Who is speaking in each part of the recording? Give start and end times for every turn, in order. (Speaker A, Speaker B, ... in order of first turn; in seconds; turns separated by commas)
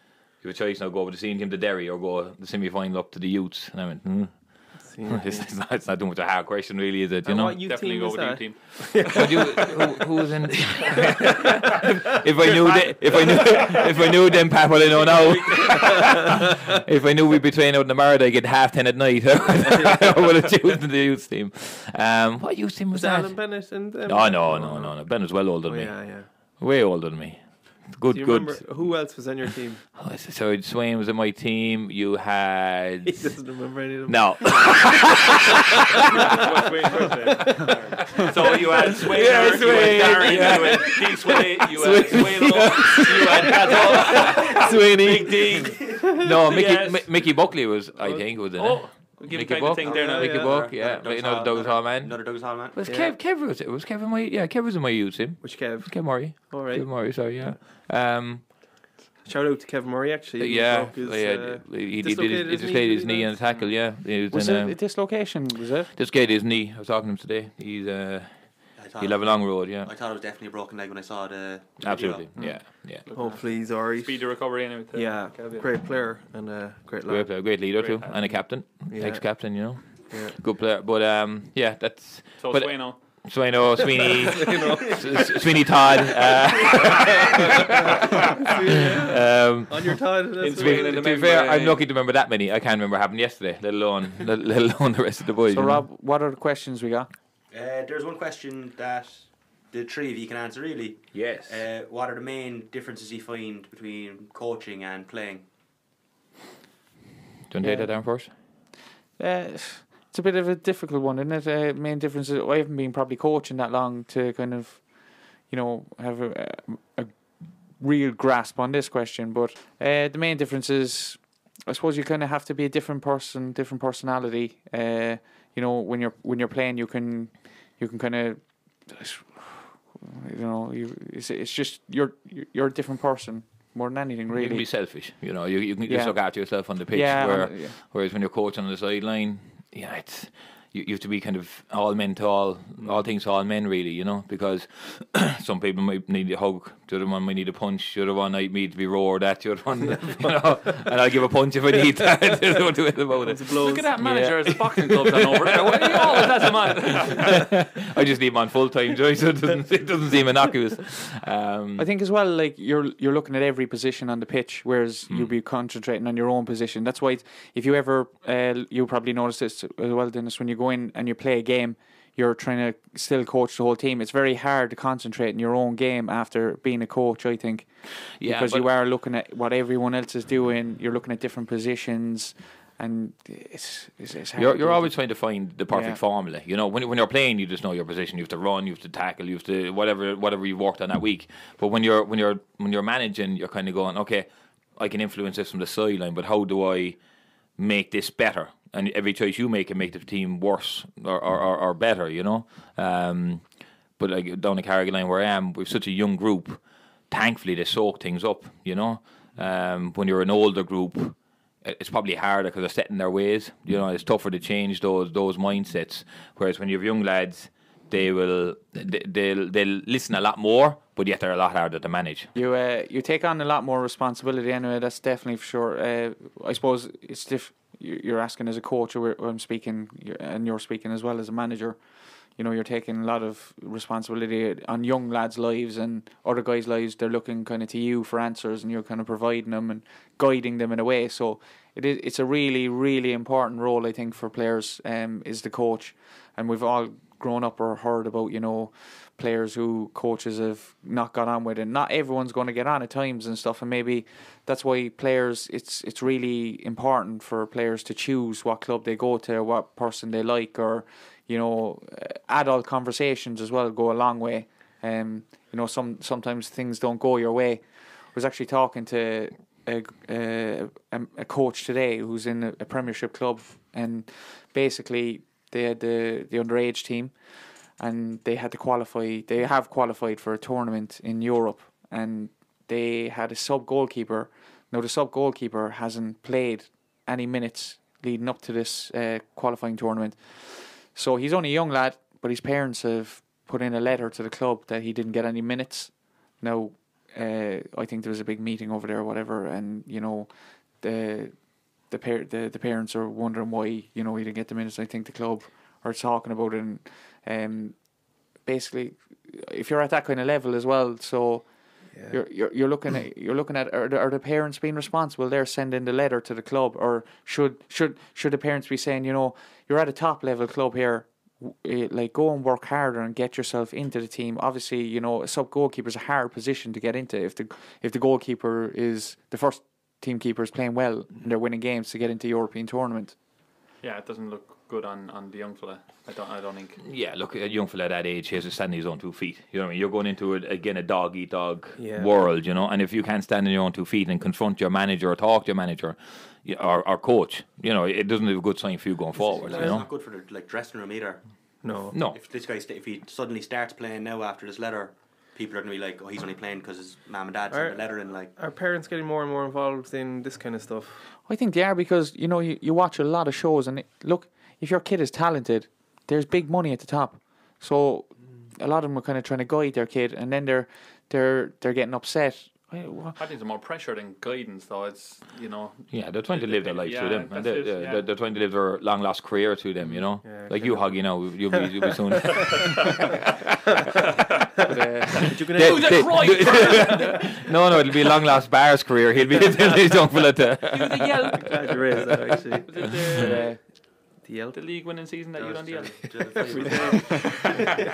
Speaker A: 0.4-7.6, Speaker B: 4.8-5.5, Speaker B: 7.2-10.0, Speaker C: 7.6-9.4, Speaker A: 9.0-28.9, Speaker B: 12.1-14.0, Speaker C: 14.8-16.2, Speaker B: 15.5-16.8, Speaker B: 19.6-20.0, Speaker B: 22.9-26.3, Speaker B: 28.1-29.8, Speaker A: 30.0-33.4, Speaker B: 33.0-35.2, Speaker A: 34.1-36.4, Speaker B: 36.0-46.4, Speaker C: 36.3-47.5, Speaker D: 37.7-38.0, Speaker A: 38.2-41.0, Speaker A: 41.9-42.3, Speaker A: 44.0-44.5, Speaker A: 46.2-58.5, Speaker B: 48.0-48.3, Speaker C: 48.5-50.6, Speaker D: 49.8-52.8, Speaker B: 50.0-50.5, Speaker B: 52.8-53.2, Speaker B: 55.4-57.6, Speaker B: 59.2-63.6, Speaker A: 60.4-64.8, Speaker E: 64.3-65.9, Speaker A: 65.9-69.9, Speaker D: 68.8-72.3, Speaker A: 71.8-73.0, Speaker C: 72.4-75.7, Speaker B: 73.1-77.5, Speaker A: 77.1-95.8, Speaker C: 77.7-78.4, Speaker B: 78.9-80.4, Speaker C: 82.4-83.2, Speaker B: 84.0-85.4, Speaker B: 86.8-91.0, Speaker C: 90.4-91.9, Speaker E: 95.5-97.1, Speaker D: 97.5-105.5, Speaker A: 101.1-101.6, Speaker A: 107.5-108.3, Speaker E: 107.6-107.9, Speaker E: 109.2-114.9, Speaker E: 115.5-117.1, Speaker E: 117.8-134.8, Speaker A: 134.3-161.9, Speaker E: 135.9-137.8, Speaker B: 153.2-153.9, Speaker C: 153.6-157.5, Speaker E: 161.8-184.9, Speaker A: 178.2-178.7, Speaker A: 184.4-197.0, Speaker E: 185.7-186.0, Speaker A: 197.6-203.5, Speaker A: 204.0-222.3, Speaker E: 222.3-231.8, Speaker E: 232.4-267.6, Speaker E: 268.1-277.1, Speaker E: 277.8-301.4, Speaker E: 301.9-307.9, Speaker E: 308.4-311.5, Speaker B: 311.9-312.2, Speaker E: 312.0-333.2, Speaker C: 333.8-336.8, Speaker A: 336.8-349.9, Speaker B: 341.8-342.3, Speaker D: 349.2-351.2, Speaker B: 349.4-349.9, Speaker B: 351.6-352.0, Speaker A: 351.9-352.2, Speaker D: 352.0-358.4, Speaker B: 357.5-361.1, Speaker E: 361.2-373.2, Speaker C: 373.2-378.1, Speaker A: 375.9-383.6, Speaker B: 380.0-382.8, Speaker B: 384.6-387.0, Speaker E: 384.7-385.3, Speaker A: 385.3-391.4, Speaker C: 385.6-387.4, Speaker B: 389.4-389.8, Speaker C: 390.7-391.8, Speaker B: 391.3-393.4, Speaker C: 392.6-393.5, Speaker E: 393.2-393.6, Speaker B: 394.2-394.6, Speaker C: 394.5-397.6, Speaker D: 395.4-397.7, Speaker B: 396.4-397.5